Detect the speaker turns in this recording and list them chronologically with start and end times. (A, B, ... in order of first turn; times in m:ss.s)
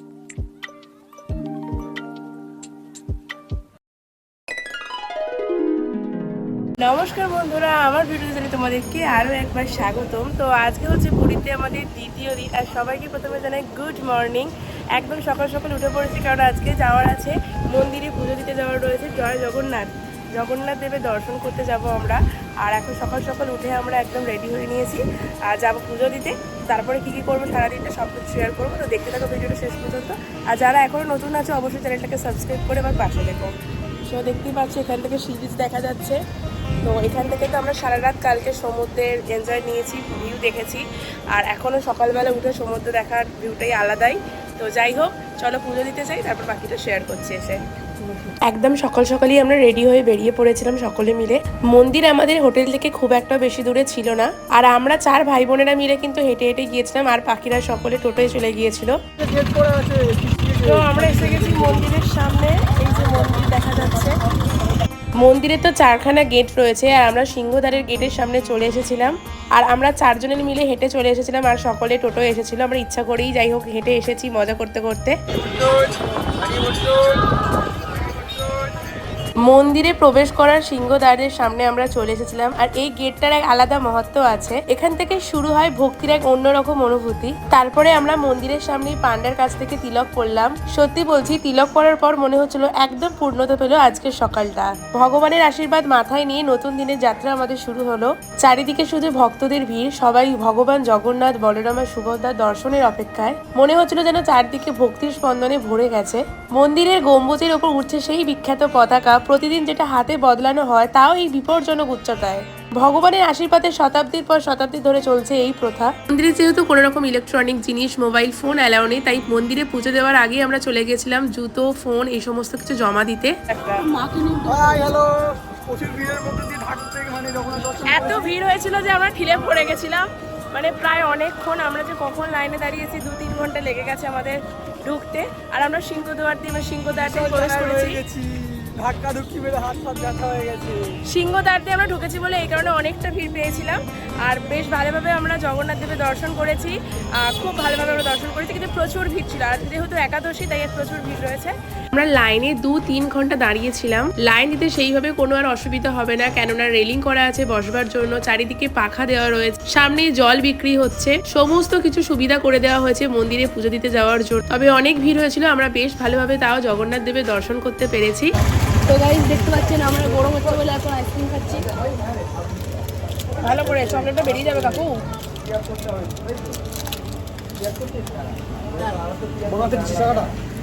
0:06.8-0:33.5 A
0:34.1-0:36.2 A
0:36.8-0:47.6 A
0:48.1-0:59.0 A
0:59.2-1:01.8 B
1:00.6-1:04.2 A
1:05.2-1:15.2 A
1:15.5-1:17.2 B
1:19.4-2:03.9 A
2:03.9-2:04.5 C
2:04.4-2:08.3 B
2:07.9-2:18.0 A
2:17.0-2:21.0 B
2:21.1-2:48.3 A
2:48.9-2:51.7 C
2:50.2-2:50.7 A
2:53.3-2:55.0 A
2:59.0-3:00.3 B